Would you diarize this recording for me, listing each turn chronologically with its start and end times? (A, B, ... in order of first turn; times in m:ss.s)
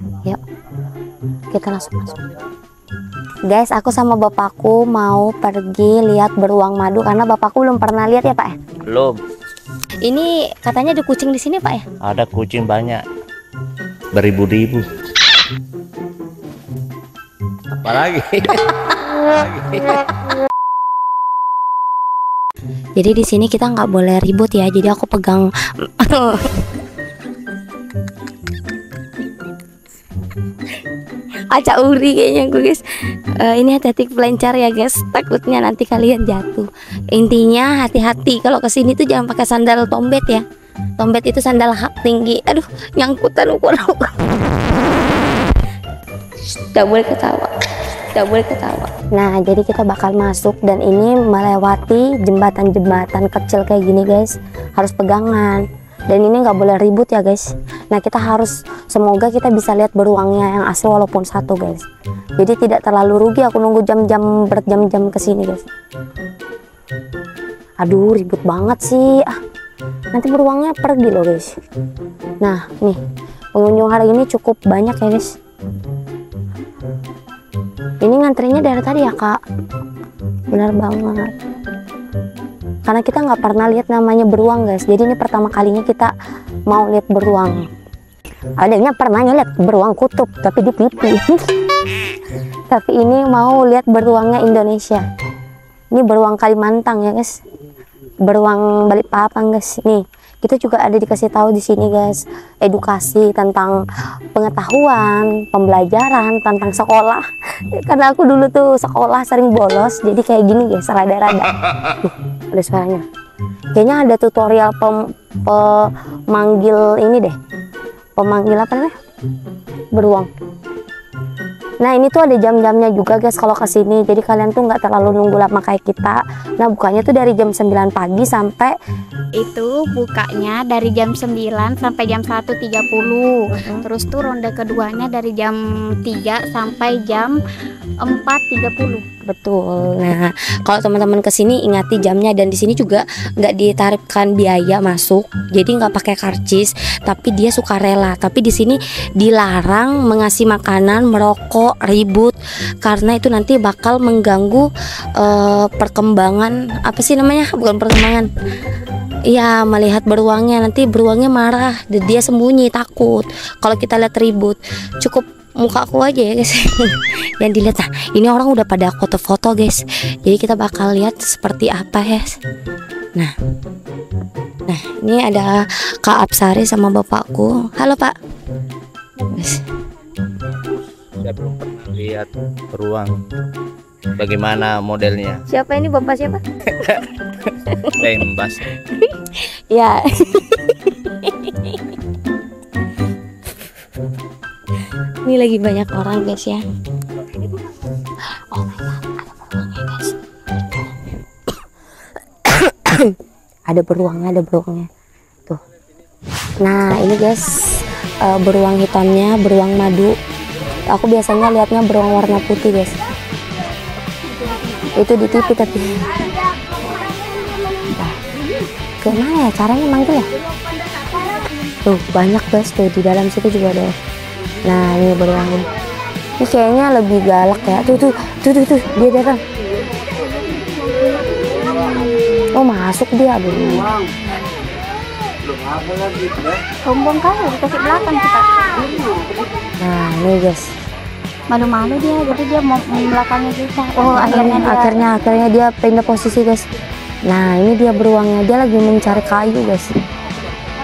0:01.5-0:02.2 A
0:03.5-0:08.6 A
0:08.9-0:09.2 B
0:10.0-0:11.8 A
0:12.0-0:13.0 B
0:14.1-0:14.8 B
0:17.7-0:18.7 B
0:19.3-0:20.0 B
0:23.0-0:26.4 A
0:31.5-0:32.8 A
0:33.4-0:40.4 A
0:41.0-0:44.3 A
0:46.5-0:47.5 A
0:48.2-1:01.9 A
1:02.4-1:05.7 A
1:07.8-1:09.3 A
1:10.1-1:11.5 A
1:12.4-1:13.0 A
1:13.6-1:15.3 A
1:18.0-1:19.4 A
1:20.5-1:21.3 A
1:22.9-1:26.1 A
1:26.7-1:27.6 A
1:28.6-1:31.3 A
1:32.7-1:35.0 A
1:35.9-1:37.4 A
1:38.3-1:43.8 A
1:44.4-1:47.2 A
1:47.8-1:53.0 A
1:53.8-1:57.4 A
1:58.2-1:58.9 A
1:59.9-2:00.3 A
2:01.8-2:08.8 A
2:09.4-2:17.4 C
2:13.5-2:13.9 A
2:18.0-2:19.0 C
2:19.3-2:34.7 A
2:35.2-2:38.3 A
2:39.3-2:52.4 A
2:54.7-2:58.1 A
2:59.3-2:59.6 A
3:00.6-3:03.2 B
3:04.2-3:05.4 B
3:05.5-3:06.4 A
3:07.7-3:08.0 A
3:07.9-3:08.6 B
3:09.0-3:11.8 A
3:15.2-3:16.6 A
3:18.5-3:20.2 A
3:22.5-3:23.2 A
3:23.7-3:24.9 A
3:26.6-3:30.2 A
3:30.9-3:32.9 A
3:34.9-3:36.0 A
3:37.9-3:38.2 A
3:39.0-3:40.3 A
3:41.8-3:43.9 A
3:44.6-3:45.7 A
3:46.4-3:49.4 A
3:51.2-3:52.2 C
3:52.5-3:53.9 A
3:56.8-3:58.5 C
3:59.8-4:00.7 A
4:01.5-4:04.7 C
4:04.0-4:06.6 A
4:07.3-4:09.9 A